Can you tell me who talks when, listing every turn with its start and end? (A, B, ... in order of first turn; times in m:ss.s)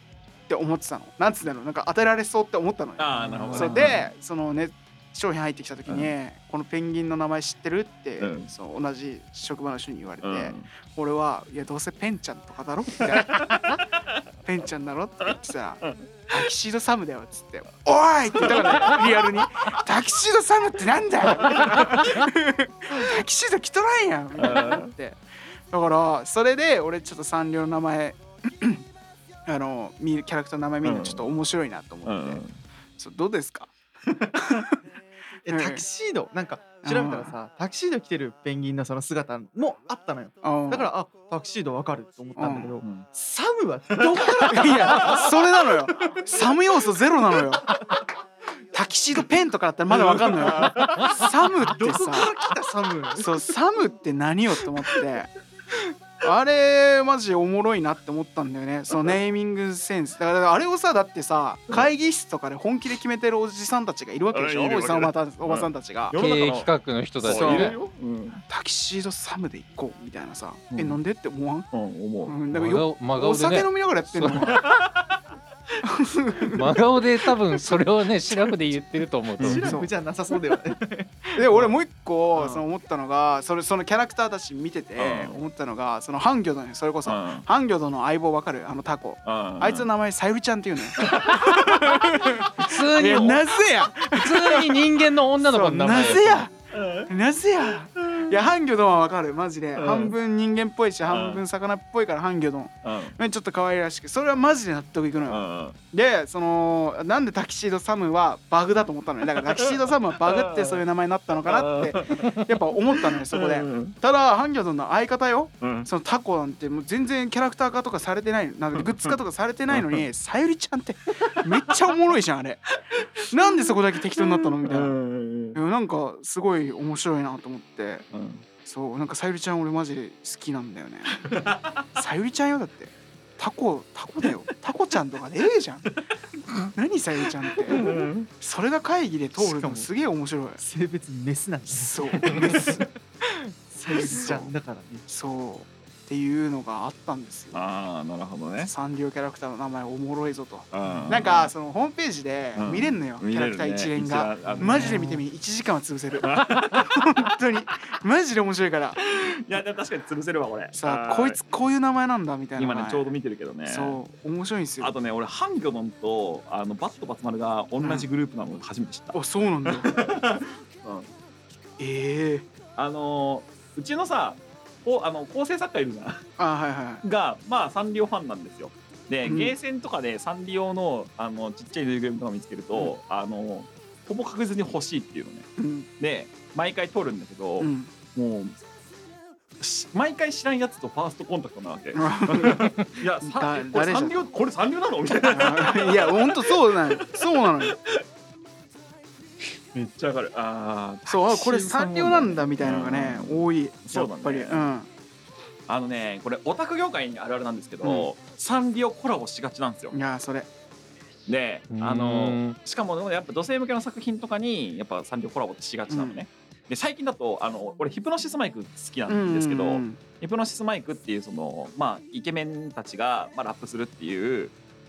0:00.5-0:13.7 A
0:03.0-0:04.1 B
0:05.8-0:06.1 B
0:08.2-0:08.5 B
0:10.2-0:10.7 B
0:13.2-0:13.5 B
0:14.4-0:28.8 A
0:18.4-0:19.4 B
0:21.5-0:21.8 B
0:24.3-0:24.9 B
0:29.4-0:32.4 A
0:30.8-0:31.4 B
0:32.0-0:32.6 B
0:33.0-0:33.7 A
0:34.4-0:34.8 A
0:35.4-0:45.3 C
0:35.5-0:35.8 A
0:36.8-0:37.4 A
0:40.4-0:40.9 A
0:42.4-0:42.7 A
0:42.8-0:43.1 B
0:43.9-0:45.3 B
0:44.5-0:47.6 A
0:48.7-0:52.3 A
0:50.1-0:51.2 B
0:51.6-0:53.4 C
0:53.1-0:55.3 A
0:56.2-1:06.2 A
1:04.3-1:08.4 B
1:06.1-1:07.8 D
1:07.2-1:07.8 A
1:08.5-1:11.7 A
1:10.7-1:11.0 B
1:11.7-1:12.4 B
1:12.2-1:14.6 A
1:12.5-1:14.4 D
1:14.3-1:15.2 B
1:15.8-1:17.0 A
1:16.5-1:19.8 D
1:19.4-1:19.7 B
1:19.4-1:21.7 C
1:19.6-1:19.9 A
1:21.4-1:36.5 A
1:22.3-1:22.6 C
1:25.0-1:25.4 B
1:27.0-1:27.5 B
1:29.2-1:29.9 B
1:31.0-1:31.5 B
1:32.6-1:33.4 D
1:34.0-1:36.5 D
1:36.7-1:37.1 B
1:37.1-2:02.6 A
1:37.7-1:38.4 B
1:39.8-1:40.1 B
1:41.0-1:41.4 B
1:42.8-1:43.2 B
1:45.3-1:45.8 B
1:49.4-1:50.8 B
1:51.4-1:52.4 B
1:53.3-1:54.0 B
1:55.6-1:55.9 B
1:58.7-1:59.2 B
1:59.7-2:00.0 B
2:03.3-2:05.0 A
2:03.7-2:05.6 B
2:05.5-2:08.0 A
2:08.1-2:08.4 B
2:08.6-2:11.3 A
2:11.3-2:12.0 B
2:12.0-2:15.9 A
2:16.7-2:20.6 A
2:17.7-2:18.3 B
2:19.4-2:19.9 C
2:20.6-2:25.0 C
2:21.7-2:22.8 A
2:22.2-2:22.8 B
2:24.0-2:24.3 B
2:24.0-2:24.5 A
2:25.1-2:27.6 A
2:27.5-2:28.7 B
2:28.6-2:39.0 A
2:30.7-2:31.5 B
2:30.8-2:31.2 C
2:32.5-2:35.0 B
2:34.5-2:35.2 C
2:36.2-2:36.9 B
2:39.0-2:41.4 B
2:40.7-2:43.1 A
2:42.6-2:44.0 B
2:43.6-2:44.9 A
2:44.8-2:51.1 B
2:47.8-2:48.1 A
2:49.1-2:50.0 A
2:51.8-2:52.5 A
2:52.7-2:56.3 B
2:56.4-2:57.0 A
2:57.0-3:08.6 B
2:59.2-2:59.5 A
3:05.6-3:05.9 A
3:07.6-3:07.9 A
3:09.6-3:18.0 B
3:11.9-3:14.2 A
3:15.2-3:17.8 A
3:19.7-3:24.7 B
3:21.0-3:24.9 A
3:25.7-3:30.0 B
3:27.8-3:28.1 A
3:29.9-3:30.5 A
3:31.3-3:44.5 B
3:31.7-3:32.6 D
3:35.9-3:36.2 A
3:39.1-3:40.0 A